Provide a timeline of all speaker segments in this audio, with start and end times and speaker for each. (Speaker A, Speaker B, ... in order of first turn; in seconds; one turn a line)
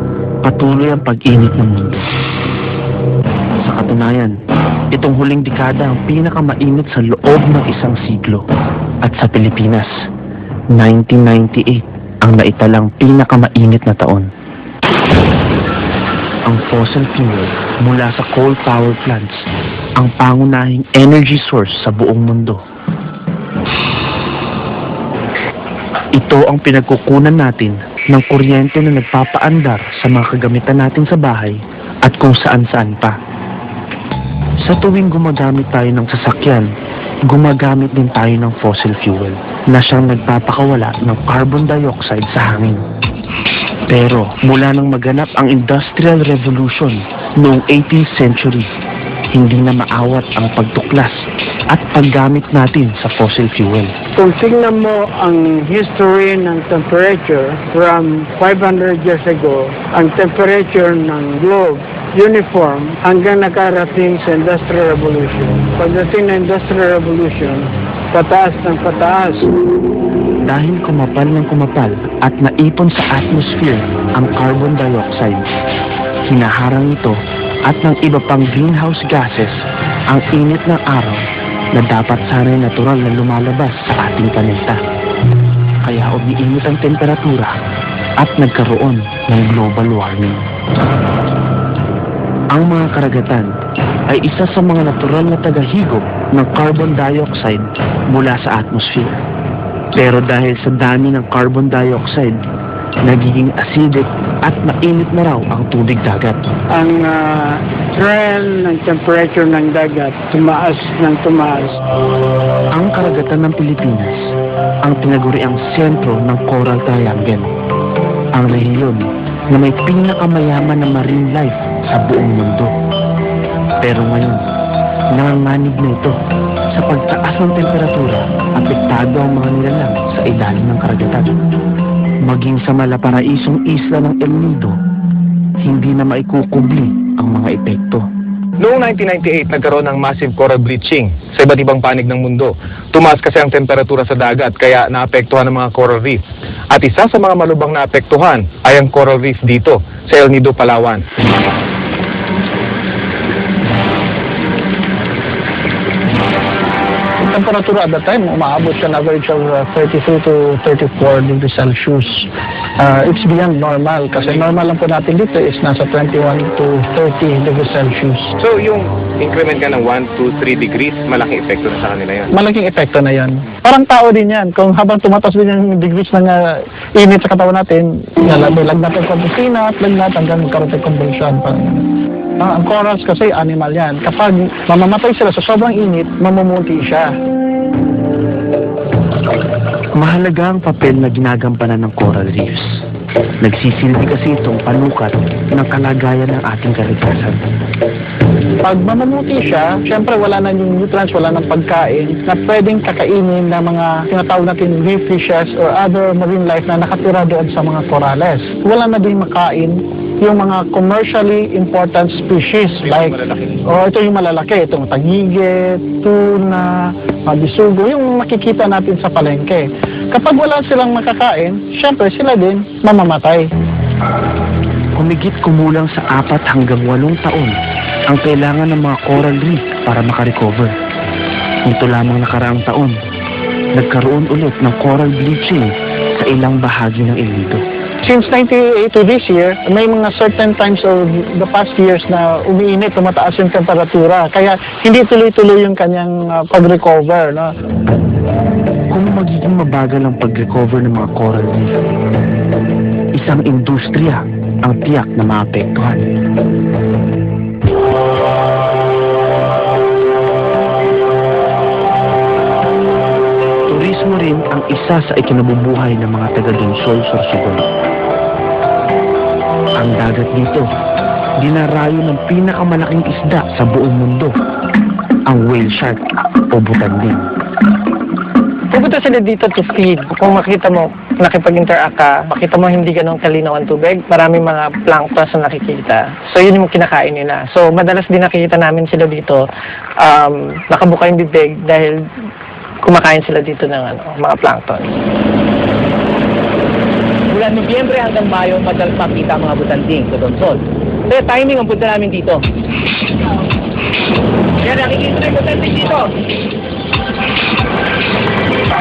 Speaker A: 0.4-2.1
Speaker A: 3.6-4.3
Speaker A: 4.9-8.4
Speaker A: 9.0-9.9
Speaker A: 10.7-14.3
Speaker A: 16.4-19.4
Speaker A: 20.0-22.6
Speaker A: 26.1-33.2
Speaker A: 34.6-36.7
Speaker A: 37.2-42.8
Speaker A: 43.9-48.7
Speaker A: 49.3-53.9
Speaker B: 54.1-69.5
Speaker A: 70.4-75.5
Speaker A: 76.3-79.6
Speaker A: 80.1-84.8
Speaker A: 85.8-87.6
Speaker A: 88.2-90.4
Speaker A: 92.5-93.5
Speaker A: 94.1-99.2
Speaker A: 100.0-102.4
Speaker A: 103.0-106.4
Speaker B: 106.7-111.8
Speaker A: 112.7-114.2
Speaker A: 114.8-117.5
Speaker A: 118.3-122.7
Speaker A: 123.8-124.4
Speaker A: 125.1-126.1
Speaker A: 126.7-131.3
Speaker A: 132.2-134.8
Speaker A: 135.6-138.1
Speaker C: 138.6-151.0
Speaker D: 157.2-168.3
Speaker C: 168.4-172.3
Speaker D: 172.3-181.8
Speaker D: 182.4-187.1
Speaker A: 189.9-192.8
Speaker A: 193.4-197.4
Speaker D: 198.6-223.5
Speaker A: 224.9-227.6
Speaker A: 228.1-230.7
Speaker A: 231.6-233.0
Speaker A: 233.7-237.6
Speaker D: 238.0-247.5
Speaker A: 248.9-251.8
Speaker A: 253.1-256.1
Speaker A: 263.7-267.6
Speaker A: 269.8-270.7
Speaker A: 271.4-274.3
Speaker A: 275.3-276.0
Speaker A: 276.5-277.3
Speaker E: 278.7-289.4
Speaker E: 290.0-292.0
Speaker E: 292.8-294.9
Speaker F: 297.3-302.4
Speaker F: 304.6-306.1